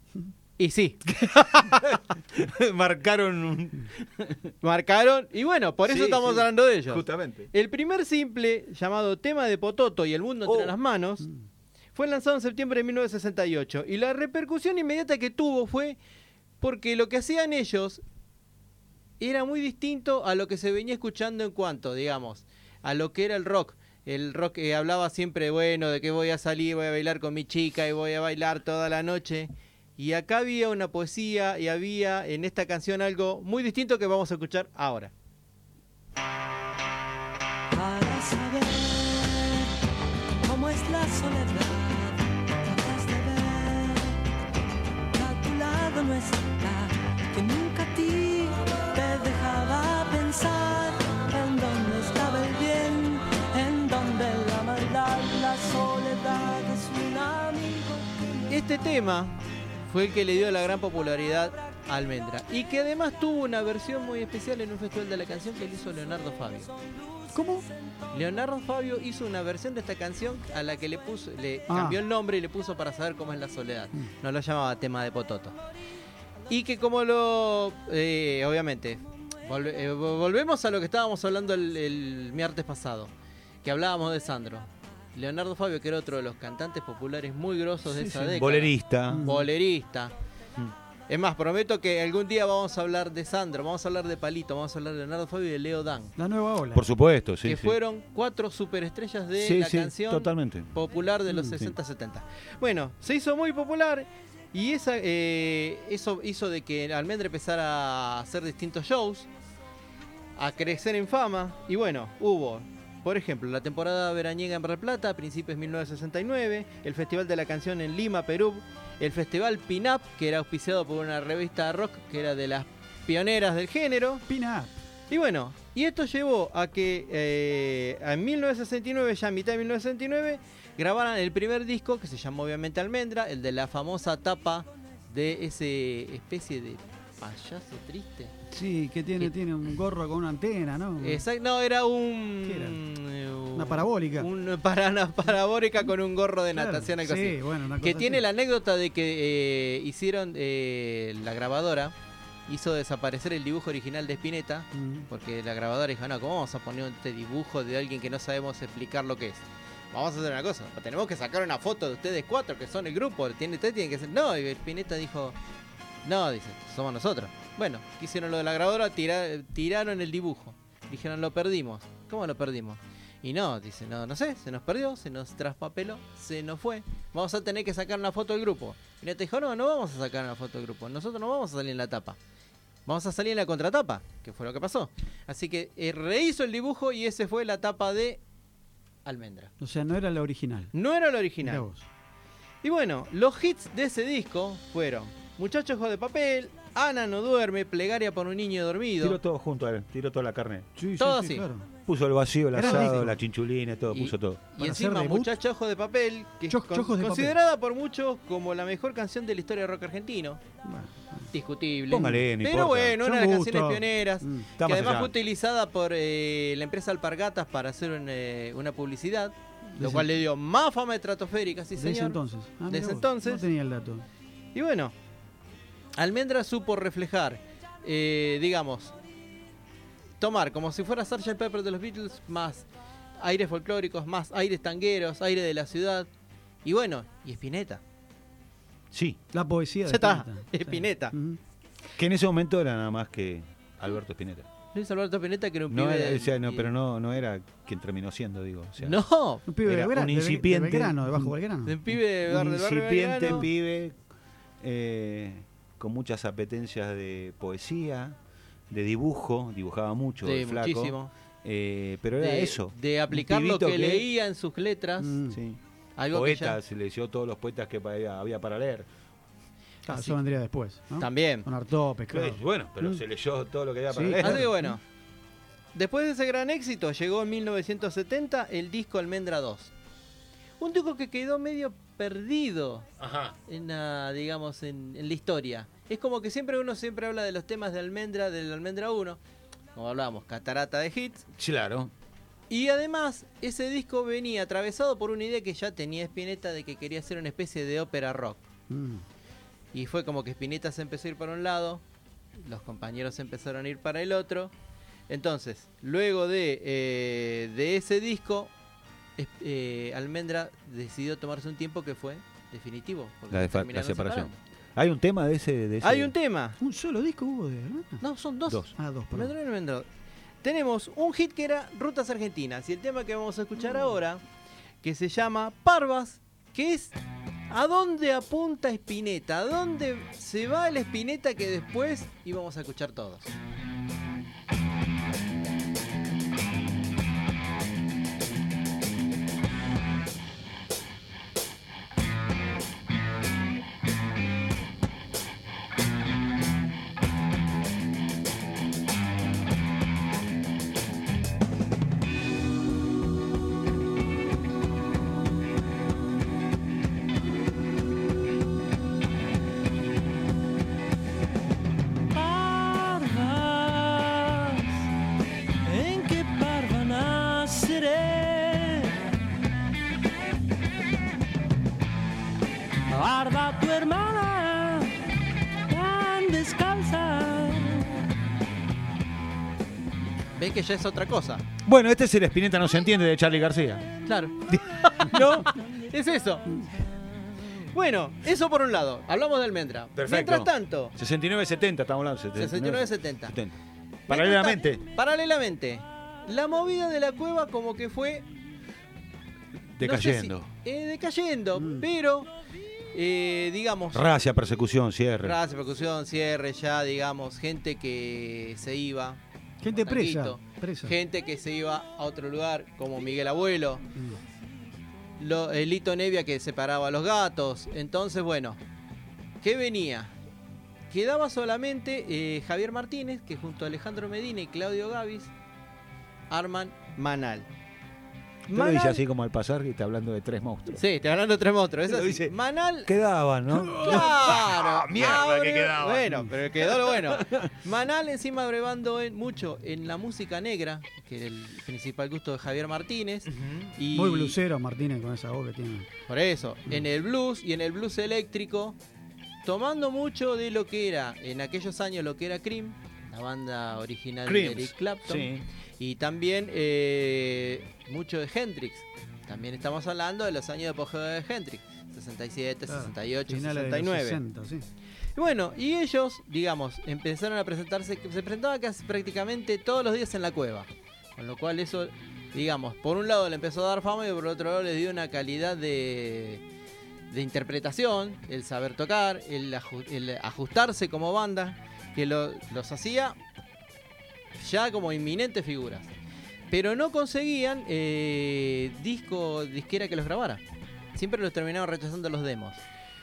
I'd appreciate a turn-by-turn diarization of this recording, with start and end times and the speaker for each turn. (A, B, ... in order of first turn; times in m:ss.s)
0:00.6-0:01.8 A
0:01.5-0:04.5 B
0:04.6-0:11.3 A
0:05.9-0:07.5 B
0:10.4-0:10.7 B
0:11.9-0:16.0 A
0:16.6-0:18.0 A
0:19.2-0:35.1 A
0:37.7-0:39.7 C
0:40.4-0:44.2 C
0:45.1-0:58.3 C
0:58.5-1:06.7 A
1:07.3-1:07.7 D
1:08.1-1:15.6 A
1:11.7-1:12.0 D
1:16.5-1:23.1 A
1:23.6-1:30.1 A
1:27.9-1:28.2 D
1:28.2-1:29.2 B
1:29.1-1:29.4 D
1:31.1-1:36.1 A
1:36.2-1:36.8 D
1:36.7-1:37.8 B
1:37.4-1:49.3 A
1:39.4-1:40.7 B
1:41.3-1:41.7 D
1:50.4-2:04.2 A
2:04.3-2:04.8 D
2:05.1-2:18.3 A
2:18.5-2:21.2 D
2:21.0-2:31.9 A
2:22.4-2:22.8 D
2:23.6-2:24.3 D
2:26.5-2:28.2 D
2:32.5-2:45.4 A
2:34.7-2:35.0 D
2:46.0-3:02.2 A
3:02.8-3:08.2 A
3:09.0-3:09.5 A
3:09.6-3:10.7 D
3:10.7-3:11.7 A
3:11.4-3:11.8 D
3:12.6-3:19.2 A
3:19.0-3:20.7 B
3:20.8-3:21.7 D
3:21.0-3:21.5 A
3:21.8-3:24.5 B
3:22.6-3:23.2 D
3:22.6-3:23.0 A
3:23.9-3:30.4 A
3:24.6-3:25.3 D
3:26.5-3:27.3 D
3:30.6-3:31.3 D
3:31.3-3:43.5 A
3:31.9-3:33.0 B
3:31.9-3:32.2 D
3:33.0-3:34.5 D
3:34.6-3:35.1 B
3:39.8-3:40.0 D
3:41.8-3:44.0 D
3:44.5-3:44.9 A
3:46.0-3:48.9 A
3:50.2-3:52.7 A
3:53.2-3:56.1 A
3:56.6-3:57.8 A
3:58.9-3:59.2 B
3:59.3-4:01.4 D
3:59.8-4:01.2 A
4:02.0-4:04.5 B
4:04.7-4:06.7 A
4:05.7-4:09.0 B
4:08.8-4:09.4 A
4:09.5-4:11.8 D
4:09.6-4:11.3 B
4:11.6-4:13.5 A
4:12.3-4:13.9 B
4:14.6-4:18.1 B
4:18.7-4:24.0 B
4:20.2-4:21.1 A
4:22.2-4:25.1 A
4:25.0-4:25.4 D
4:25.3-4:25.6 B
4:26.0-4:26.6 A
4:26.1-4:28.9 B
4:29.9-4:33.0 D
4:29.9-4:30.2 A
4:31.0-4:31.5 A
4:32.1-4:34.5 B
4:33.9-4:34.6 D
4:34.1-4:34.8 A
4:35.7-4:39.7 A
4:40.6-4:42.9 A
4:43.0-4:43.3 B
4:43.4-4:49.2 A
4:49.8-4:51.2 A
4:51.4-4:51.9 B
4:52.5-4:58.4 A
4:58.7-4:59.0 D
4:59.7-5:01.8 A
5:02.4-5:04.5 A
5:05.1-5:08.5 A
5:09.2-5:14.4 A
5:13.3-5:16.1 B
5:15.8-5:16.6 A
5:16.6-5:18.0 D
5:18.0-5:19.9 A
5:18.7-5:19.3 D
5:20.4-5:24.2 A
5:24.8-5:26.9 A
5:27.5-5:33.4 A
6:02.1-6:04.7 C
6:05.6-6:09.0 C
6:12.9-6:15.0 C
6:15.7-6:18.0 C
6:20.4-6:21.4 A
6:21.6-6:23.9 B
6:24.1-6:26.7 A
6:24.5-6:25.5 B
6:27.7-6:31.0 A
6:30.0-6:33.6 B
6:32.4-6:33.4 A
6:34.1-6:34.8 B
6:34.1-6:38.2 A
6:39.8-6:40.5 B
6:39.8-6:42.3 A
6:41.6-6:41.8 D
6:42.9-6:44.1 A
6:43.9-6:45.4 B
6:45.2-6:53.8 A
6:49.6-6:51.0 D
6:55.2-6:58.6 A
6:59.4-7:00.1 A
7:00.9-7:05.3 A
7:06.3-7:07.5 A
7:08.5-7:09.0 A
7:08.5-7:10.8 B
7:10.7-7:12.9 A
7:11.9-7:17.5 B
7:13.6-7:24.4 A
7:23.9-7:25.9 D
7:26.1-7:28.8 A
7:29.4-7:44.2 A
7:34.2-7:35.4 B
7:42.7-7:44.7 D
7:45.1-7:56.4 A
7:57.1-8:03.2 A
8:04.4-8:05.9 A
8:06.5-8:10.4 A
8:11.0-8:12.6 A